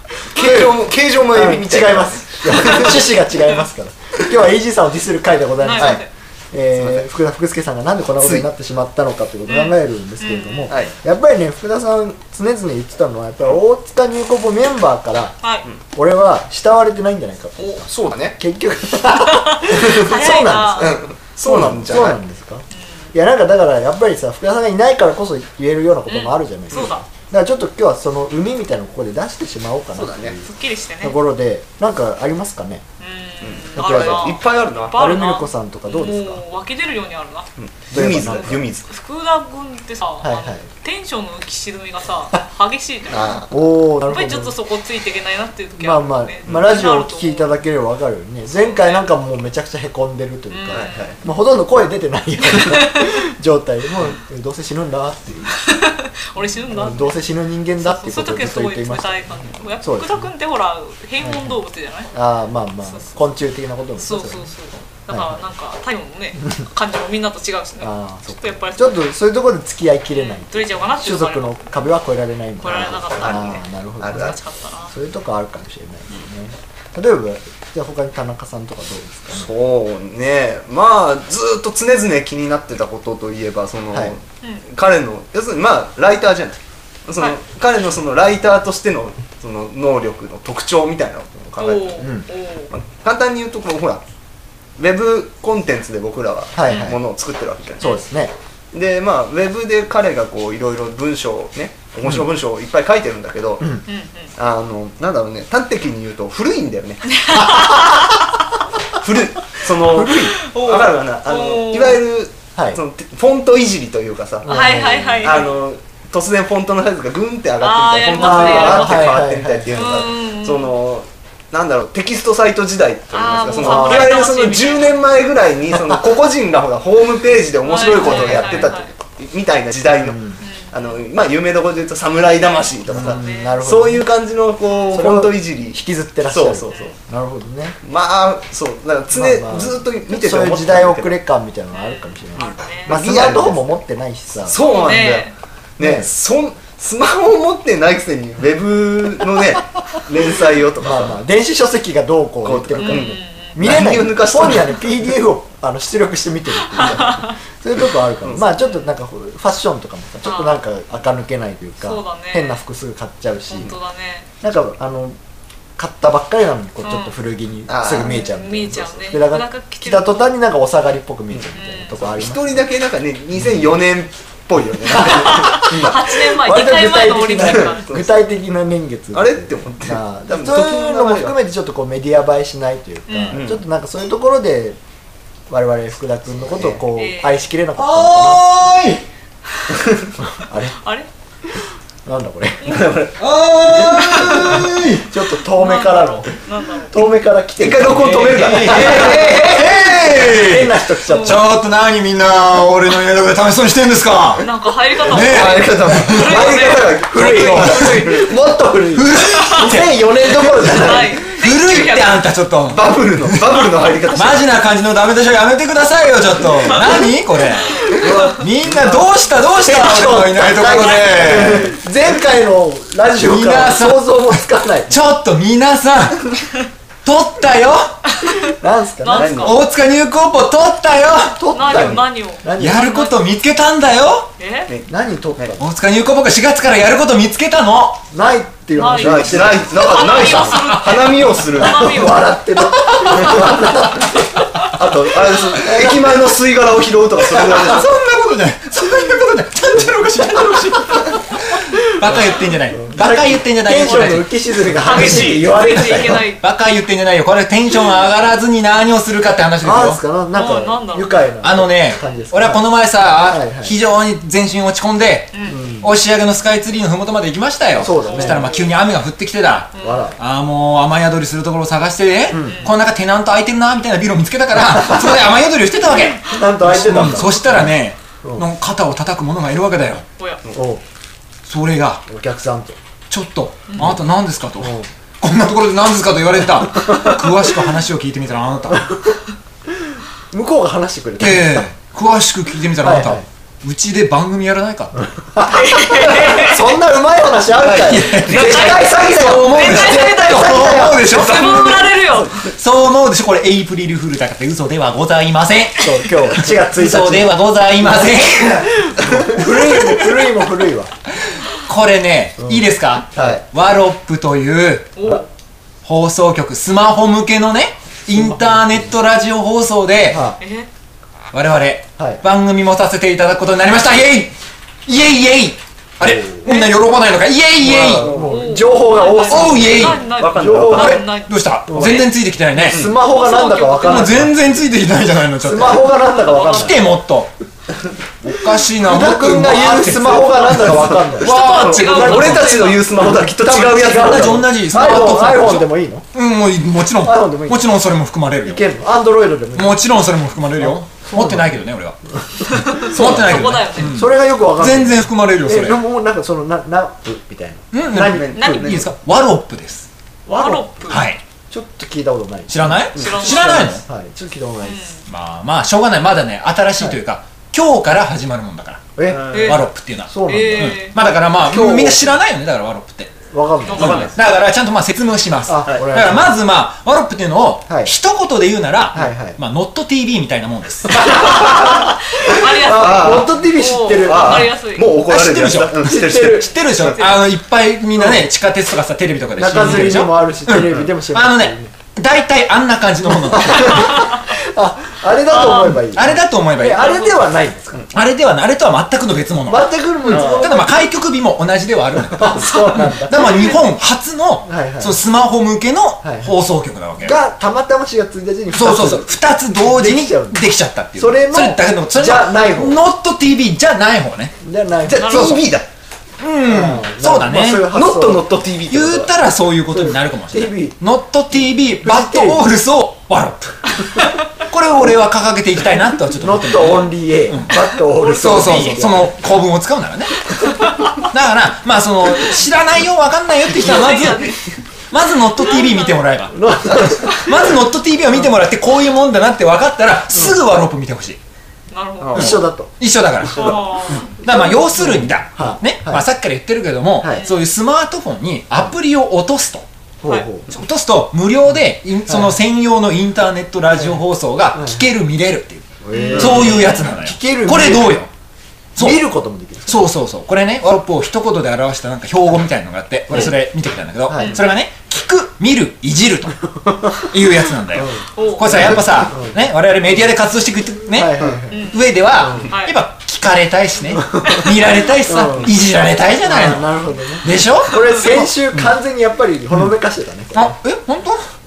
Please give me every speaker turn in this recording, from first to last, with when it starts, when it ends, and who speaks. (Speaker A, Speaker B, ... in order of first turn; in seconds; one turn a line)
Speaker A: 0.2-0.8
Speaker B: 0.3-3.1
Speaker A: 1.3-15.4
Speaker C: 5.6-6.1
Speaker B: 6.8-7.1
Speaker B: 8.2-8.5
Speaker C: 9.5-10.9
Speaker C: 15.4-15.7
Speaker A: 15.9-30.5
Speaker B: 17.6-18.4
Speaker C: 19.1-21.0
Speaker B: 20.8-22.2
Speaker C: 22.7-23.1
Speaker C: 26.1-27.0
Speaker B: 26.7-27.0
Speaker B: 29.9-30.4
Speaker C: 30.4-31.2
Speaker A: 31.0-32.8
Speaker C: 33.0-37.5
Speaker B: 33.4-35.0
Speaker A: 33.8-34.4
Speaker A: 34.9-36.4
Speaker B: 37.6-38.9
Speaker A: 37.9-38.7
Speaker C: 38.2-43.4
Speaker A: 40.2-40.6
Speaker B: 43.1-43.5
Speaker A: 43.5-44.5
Speaker C: 44.1-47.5
Speaker A: 45.8-55.6
Speaker C: 48.5-49.0
Speaker C: 50.5-51.2
Speaker B: 50.7-51.2
Speaker C: 52.5-53.2
Speaker C: 55.6-57.2
Speaker A: 56.7-59.2
Speaker C: 57.8-62.1
Speaker A: 59.8-60.3
Speaker A: 61.2-61.6
Speaker A: 62.1-64.5
Speaker C: 62.9-63.2
Speaker C: 64.0-69.1
Speaker A: 65.1-65.3
Speaker A: 67.8-74.4
Speaker C: 70.1-71.6
Speaker C: 72.6-74.9
Speaker B: 72.7-74.4
Speaker A: 74.9-79.5
Speaker B: 79.3-92.2
Speaker C: 91.6-92.7
Speaker B: 92.7-94.0
Speaker B: 94.8-98.0
Speaker A: 96.5-97.0
Speaker A: 97.8-98.3
Speaker B: 98.7-103.6
Speaker C: 103.9-104.3
Speaker B: 104.4-107.2
Speaker C: 107.1-108.2
Speaker A: 107.5-107.8
Speaker B: 109.0-130.2
Speaker A: 109.8-110.4
Speaker C: 110.2-112.0
Speaker A: 114.4-115.4
Speaker C: 114.5-115.6
Speaker C: 117.6-120.8
Speaker A: 118.2-119.8
Speaker C: 123.1-125.0
Speaker A: 123.6-124.2
Speaker C: 127.6-128.9
Speaker A: 128.0-128.7
Speaker A: 130.0-130.4
Speaker C: 130.4-131.1
Speaker B: 130.7-136.9
Speaker A: 132.9-134.0
Speaker C: 133.0-133.6
Speaker A: 134.9-137.8
Speaker C: 136.7-137.0
Speaker B: 137.8-141.2
Speaker A: 139.1-144.6
Speaker C: 141.7-143.0
Speaker B: 142.4-143.8
Speaker B: 144.4-151.2
Speaker C: 144.6-145.3
Speaker A: 145.8-146.1
Speaker A: 150.8-163.7
Speaker B: 152.4-154.9
Speaker C: 152.8-153.6
Speaker B: 156.8-157.1
Speaker C: 156.8-157.3
Speaker C: 158.6-158.9
Speaker C: 160.2-160.6
Speaker C: 161.8-162.6
Speaker C: 163.5-164.3
Speaker A: 164.4-165.2
Speaker A: 165.8-172.6
Speaker C: 166.8-167.1
Speaker B: 167.7-168.2
Speaker C: 167.9-170.3
Speaker B: 171.3-176.2
Speaker C: 171.6-172.0
Speaker A: 175.0-184.8
Speaker C: 175.0-177.9
Speaker B: 177.3-178.2
Speaker B: 179.1-181.4
Speaker C: 183.1-183.4
Speaker B: 183.3-183.6
Speaker A: 185.5-188.5
Speaker B: 186.5-186.8
Speaker C: 186.9-187.5
Speaker D: 187.8-189.0
Speaker A: 190.2-190.8
Speaker C: 190.7-191.1
Speaker A: 192.1-192.8
Speaker B: 192.6-194.9
Speaker D: 193.2-195.1
Speaker C: 193.8-194.6
Speaker A: 195.0-196.3
Speaker C: 195.6-197.0
Speaker A: 196.9-201.5
Speaker B: 197.6-200.2
Speaker D: 197.9-204.5
Speaker C: 198.6-199.4
Speaker C: 201.1-201.5
Speaker C: 204.4-208.3
Speaker D: 205.0-206.4
Speaker B: 205.1-208.4
Speaker A: 206.2-211.2
Speaker D: 207.2-208.1
Speaker D: 208.9-221.8
Speaker C: 209.2-209.7
Speaker C: 210.7-212.2
Speaker B: 212.7-214.5
Speaker A: 217.9-219.1
Speaker B: 218.0-218.3
Speaker A: 219.6-225.1
Speaker C: 220.7-221.1
Speaker B: 221.2-221.6
Speaker D: 223.2-226.4
Speaker D: 227.0-228.0
Speaker C: 228.1-229.6
Speaker A: 228.5-229.5
Speaker B: 229.1-229.6
Speaker D: 229.4-231.5
Speaker A: 231.4-232.9
Speaker C: 231.5-233.1
Speaker B: 231.6-232.0
Speaker D: 232.6-234.3
Speaker C: 234.4-234.7
Speaker B: 234.7-235.5
Speaker A: 234.9-235.7
Speaker D: 235.6-238.1
Speaker A: 238.1-240.5
Speaker C: 238.8-242.6
Speaker B: 238.8-242.2
Speaker A: 241.6-244.3
Speaker B: 243.0-247.9
Speaker C: 243.2-243.6
Speaker A: 245.7-246.0
Speaker D: 247.3-254.3
Speaker B: 250.4-251.2
Speaker A: 252.0-256.3
Speaker C: 253.8-256.4
Speaker B: 254.9-255.5
Speaker D: 255.0-255.3
Speaker D: 256.4-260.0
Speaker A: 259.6-263.8
Speaker C: 260.3-261.2
Speaker D: 261.4-280.1
Speaker C: 265.3-265.6
Speaker A: 265.5-265.9
Speaker A: 267.8-268.6
Speaker C: 267.9-268.7
Speaker C: 269.7-270.1
Speaker A: 269.8-270.2
Speaker A: 272.3-272.7
Speaker C: 272.4-272.7
Speaker A: 276.3-277.7
Speaker C: 280.2-280.4
Speaker A: 280.6-280.8
Speaker D: 281.5-282.0
Speaker A: 282.1-282.8
Speaker D: 283.1-288.9
Speaker A: 284.6-284.9
Speaker A: 286.9-287.2
Speaker A: 290.3-291.7
Speaker D: 291.2-295.0
Speaker A: 292.8-293.3
Speaker A: 295.3-301.3
Speaker C: 295.5-296.6
Speaker B: 297.5-298.8
Speaker D: 297.8-301.8
Speaker C: 298.3-302.4
Speaker B: 301.1-302.5
Speaker D: 302.5-310.3
Speaker A: 305.8-310.9
Speaker D: 311.6-314.9
Speaker A: 312.4-313.4
Speaker C: 315.0-315.3
Speaker D: 315.8-320.2
Speaker A: 318.1-318.8
Speaker A: 320.1-320.4
Speaker C: 320.4-320.7
Speaker D: 321.3-328.1
Speaker A: 322.0-322.2
Speaker A: 326.0-326.5
Speaker C: 326.4-326.8
Speaker A: 327.6-331.1
Speaker B: 327.8-328.6
Speaker C: 328.2-331.9
Speaker D: 329.1-330.0
Speaker B: 329.6-331.1
Speaker D: 330.8-332.9
Speaker A: 331.7-334.4
Speaker B: 332.7-333.0
Speaker C: 333.0-334.2
Speaker D: 333.8-337.3
Speaker A: 335.4-336.8
Speaker C: 336.2-336.8
Speaker D: 338.2-342.6
Speaker A: 338.8-346.1
Speaker B: 340.7-344.5
Speaker C: 341.2-343.1
Speaker D: 343.9-348.7
Speaker A: 347.0-347.7
Speaker A: 348.4-349.8
Speaker D: 349.6-352.0
Speaker A: 350.6-351.5
Speaker C: 352.5-354.0
Speaker D: 352.7-355.8
Speaker A: 352.7-358.8
Speaker B: 352.9-353.3
Speaker D: 357.7-359.9
Speaker B: 358.0-358.9
Speaker C: 358.4-358.8
Speaker A: 360.3-364.9
Speaker C: 360.3-361.0
Speaker D: 360.9-361.2
Speaker D: 362.5-363.8
Speaker B: 362.9-363.6
Speaker C: 362.9-363.8
Speaker C: 364.6-365.0
Speaker D: 365.1-373.1
Speaker A: 369.0-370.8
Speaker B: 369.1-369.6
Speaker C: 369.3-369.7
Speaker C: 370.3-370.9
Speaker A: 371.4-372.2
Speaker A: 373.3-374.1
Speaker C: 373.7-374.0
Speaker B: 373.7-374.2
Speaker D: 373.7-381.2
Speaker A: 375.5-376.3
Speaker A: 378.9-379.4
Speaker B: 381.0-383.3
Speaker C: 381.2-385.0
Speaker A: 381.3-384.5
Speaker B: 384.0-386.6
Speaker D: 385.0-393.9
Speaker A: 385.8-386.5
Speaker C: 386.6-387.3
Speaker A: 387.9-388.2
Speaker A: 389.4-391.7
Speaker A: 393.3-397.9
Speaker C: 395.3-395.8
Speaker D: 395.3-397.0
Speaker C: 396.8-397.2
Speaker D: 397.9-407.2
Speaker A: 399.5-400.8
Speaker B: 400.1-400.5
Speaker A: 402.1-403.6
Speaker A: 404.4-405.0
Speaker A: 406.0-406.4
Speaker A: 407.0-410.4
Speaker D: 408.5-414.4
Speaker A: 411.0-412.8
Speaker A: 414.4-415.4
Speaker B: 414.8-415.7
Speaker C: 415.0-415.4
Speaker D: 415.1-415.4
Speaker D: 416.2-417.8
Speaker A: 416.5-418.3
Speaker B: 417.7-419.1
Speaker D: 418.7-430.3
Speaker A: 419.7-420.8
Speaker A: 421.8-422.4
Speaker A: 426.2-429.1
Speaker D: 431.0-434.4
Speaker C: 433.5-434.6
Speaker D: 434.9-441.2
Speaker C: 435.4-435.9
Speaker A: 436.3-437.3
Speaker C: 441.7-442.4
Speaker B: 442.0-442.4
Speaker A: 442.1-442.7
Speaker D: 442.1-449.7
Speaker B: 443.4-443.7
Speaker C: 443.4-444.2
Speaker A: 444.2-446.1
Speaker A: 447.0-447.3
Speaker A: 450.0-450.5
Speaker D: 450.5-458.1
Speaker A: 452.1-452.4
Speaker A: 454.5-454.8
Speaker A: 455.8-458.0
Speaker C: 455.9-456.9
Speaker D: 458.8-459.1
Speaker A: 458.8-459.9
Speaker D: 459.7-466.4
Speaker A: 464.1-464.4
Speaker A: 466.7-467.1
Speaker D: 467.0-478.8
Speaker A: 467.7-469.4
Speaker C: 468.2-468.8
Speaker A: 470.9-472.5
Speaker C: 471.5-471.9
Speaker C: 472.4-472.8
Speaker A: 474.0-474.5
Speaker A: 475.1-475.5
Speaker A: 476.2-480.6
Speaker D: 480.3-481.2